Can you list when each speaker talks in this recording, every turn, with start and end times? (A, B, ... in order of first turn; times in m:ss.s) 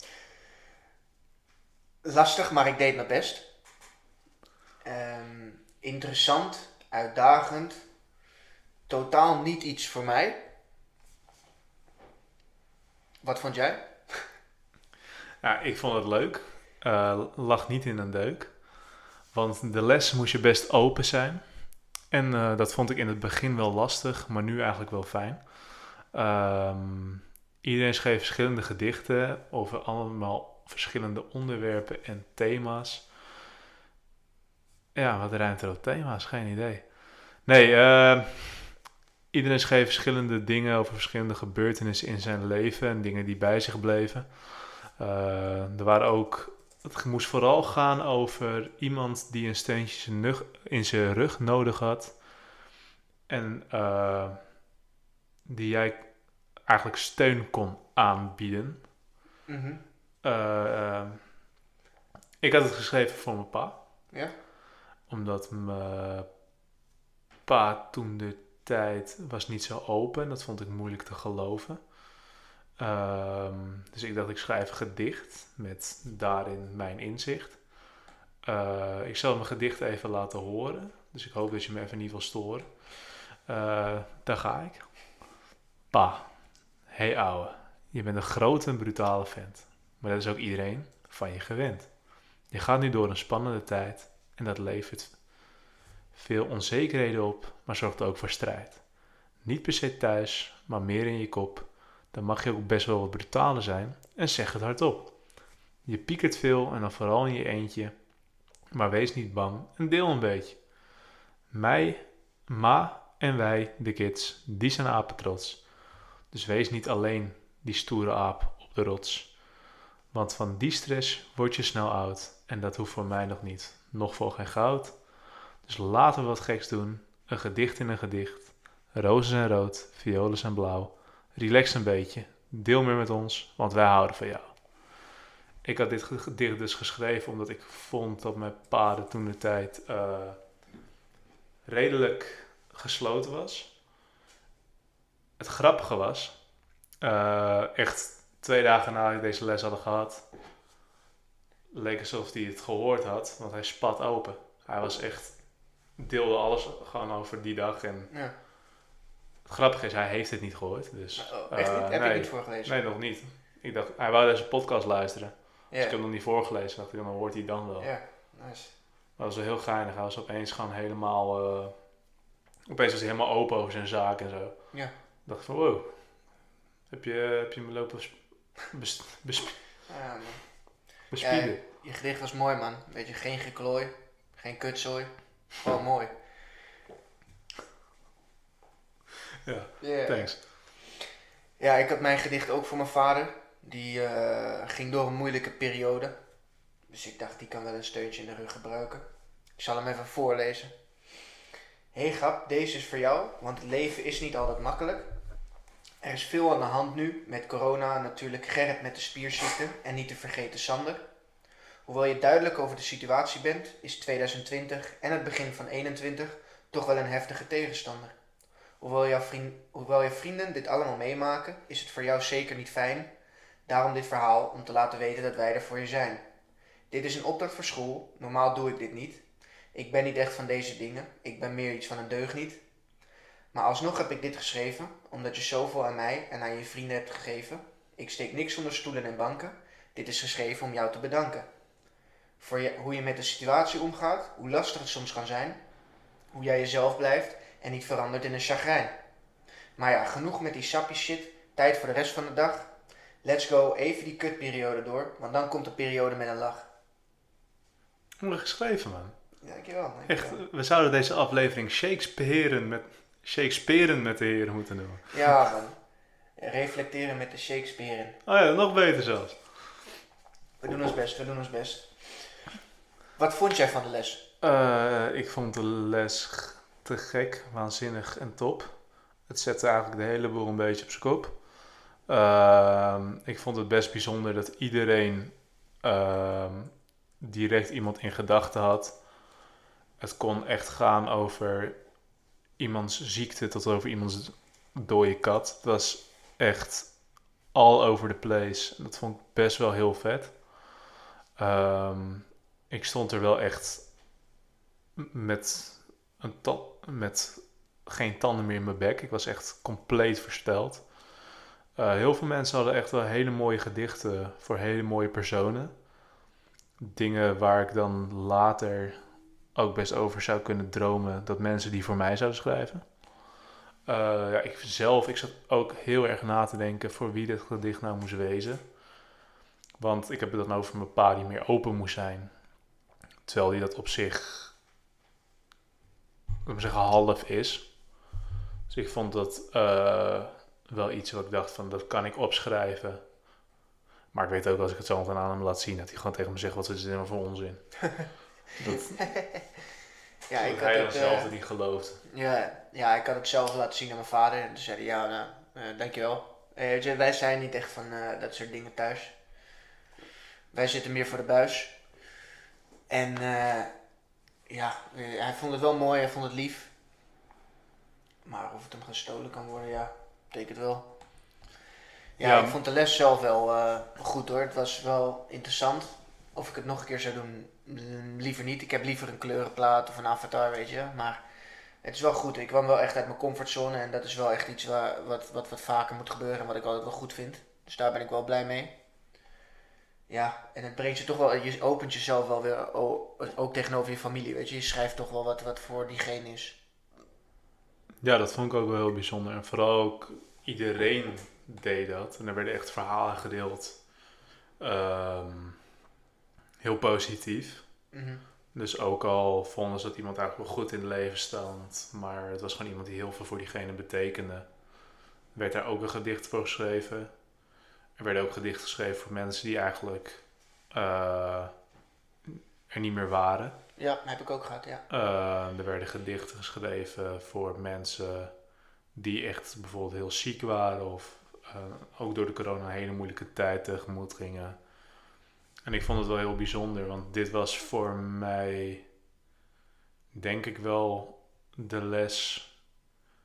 0:02.0-0:03.5 A
0:04.8-0:07.8 A
0:08.9-0:10.4 A
0:13.2-0:14.3 A
0:15.4-0:33.1 B
0:35.0-0:52.2 B
0:53.3-0:54.4 B
0:55.5-0:58.9 B
0:59.5-0:59.8 A
1:00.2-1:01.3 B
1:02.4-1:03.8 B
1:05.1-1:06.3 B
1:07.5-1:11.9 B
1:12.8-1:17.6 B
1:18.4-1:25.2 B
1:25.9-1:35.5 B
1:36.1-1:48.1 B
1:48.7-1:50.7 B
1:51.5-1:59.5 B
2:00.1-2:05.0 B
2:05.6-2:14.7 B
2:15.6-2:20.4 B
2:21.6-2:23.8 B
2:25.4-2:26.4 B
2:27.0-2:30.3 B
2:31.7-2:38.1 B
2:38.1-2:38.3 A
2:39.4-2:47.9 B
2:41.2-2:42.8 A
2:45.7-2:46.0 A
2:47.8-2:48.7 A
2:49.2-2:52.0 B
2:52.7-2:56.3 B
2:56.9-2:59.7 B
2:59.9-3:00.6 A
3:01.1-3:01.6 B
3:01.2-3:06.1 A
3:09.4-3:10.4 B
3:09.8-3:10.5 A
3:11.6-3:16.1 A
3:16.9-3:20.7 A
3:21.9-3:25.1 A
3:26.0-3:31.0 A
3:31.8-3:38.1 A
3:38.8-3:43.1 A
3:43.7-3:46.2 A
3:46.9-3:52.6 A
3:53.5-4:01.5 A
4:02.4-4:05.6 A
4:06.3-4:08.9 A
4:09.8-4:12.7 A
4:13.2-4:16.7 A
4:18.2-4:19.2 B
4:19.4-4:20.4 A
4:20.1-4:25.4 B
4:25.1-4:25.8 A
4:26.4-4:28.2 A
4:28.2-4:29.5 B
4:30.6-4:32.5 A
4:33.2-4:34.2 A
4:34.4-4:49.2 B
4:50.0-4:51.8 B
4:52.6-5:00.6 B
5:01.4-5:03.9 B
5:05.0-5:11.1 B
5:11.8-5:15.8 B
5:16.8-5:23.0 B
5:23.9-5:28.8 B
5:29.8-5:32.5 B
5:33.2-5:34.6 B
5:36.4-5:37.9 B
5:38.7-5:43.2 B
5:44.1-5:48.1 B
5:48.6-5:49.0 B
5:49.0-5:49.4 A
5:50.3-5:51.4 A
5:50.4-5:52.0 B
5:52.1-5:59.2 A
6:00.5-6:01.8 A
6:02.9-6:03.7 A
6:04.5-6:06.7 A
6:08.2-6:10.9 A
6:12.2-6:21.2 A
6:12.2-6:12.6 B
6:21.8-6:28.7 A
6:30.1-6:36.6 A
6:38.0-6:43.8 B
6:44.6-6:45.6 B
6:46.6-6:47.7 B
6:47.9-6:48.2 A
6:48.5-6:54.6 B
6:55.3-6:57.1 B
6:58.0-7:01.5 B
7:02.2-7:03.6 B
7:03.8-7:04.9 A
7:04.9-7:08.4 B
7:08.9-7:14.6 B
7:15.6-7:18.9 B
7:20.1-7:22.6 B